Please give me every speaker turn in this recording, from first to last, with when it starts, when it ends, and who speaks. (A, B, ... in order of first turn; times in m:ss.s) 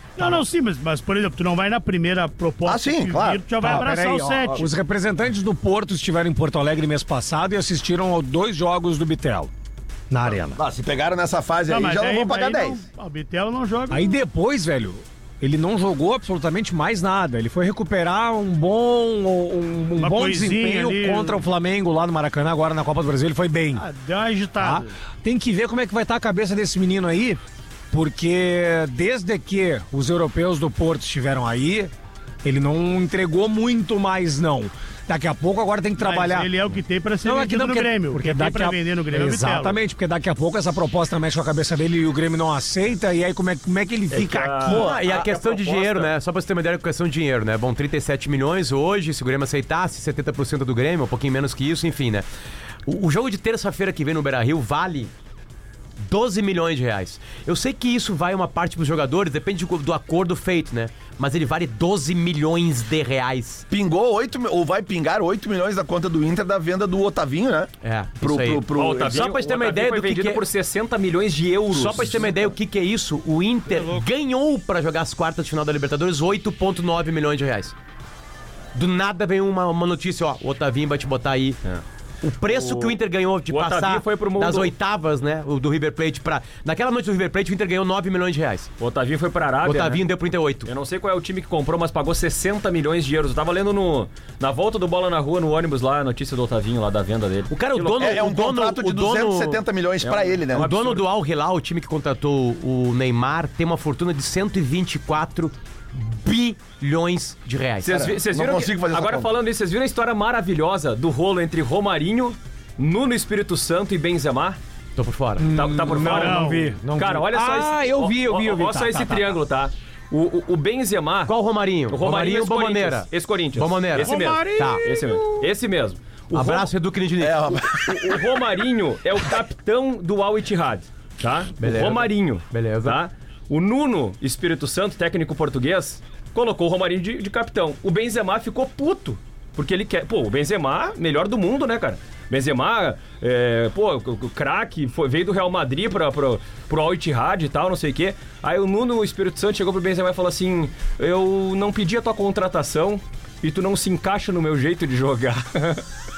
0:00.2-0:04.7 A
0:00.2-0:00.4 B
0:02.6-0:03.4 C
0:03.6-0:09.5 B
0:10.1-0:10.6 B
0:10.4-0:12.8 C
0:11.7-0:14.2 A
0:13.9-0:23.8 B
0:20.0-0:21.4 A
0:23.8-0:24.9 A
0:24.6-0:27.4 B
0:27.9-0:31.9 B
0:32.4-0:36.5 B
0:36.0-0:39.8 A
0:37.2-0:44.8 B
0:44.1-0:46.1 D
0:44.6-0:45.2 C
0:44.7-0:52.2 E
0:52.8-0:55.1 E
0:56.0-1:03.6 E
1:03.7-1:09.2 C
1:07.8-1:10.4 E
1:08.7-1:12.5 D
1:11.7-1:17.7 E
1:18.7-1:21.6 E
1:22.2-1:28.7 E
1:22.4-1:23.0 D
1:23.5-1:24.7 D
1:28.8-1:30.0 D
1:29.6-1:30.7 E
1:30.6-1:38.3 D
1:37.5-1:39.6 E
1:38.0-1:40.7 C
1:40.0-1:41.0 D
1:40.5-1:48.0 E
1:47.8-1:54.6 D
1:47.9-1:49.3 C
1:55.0-1:55.5 E
1:55.4-1:59.4 B
1:55.4-2:01.3 D
1:56.1-1:56.7 A
2:01.3-2:04.8 E
2:01.9-2:06.7 D
2:04.0-2:05.4 A
2:06.3-2:07.7 E
2:07.2-2:08.3 C
2:07.9-2:35.8 D
2:11.6-2:13.0 E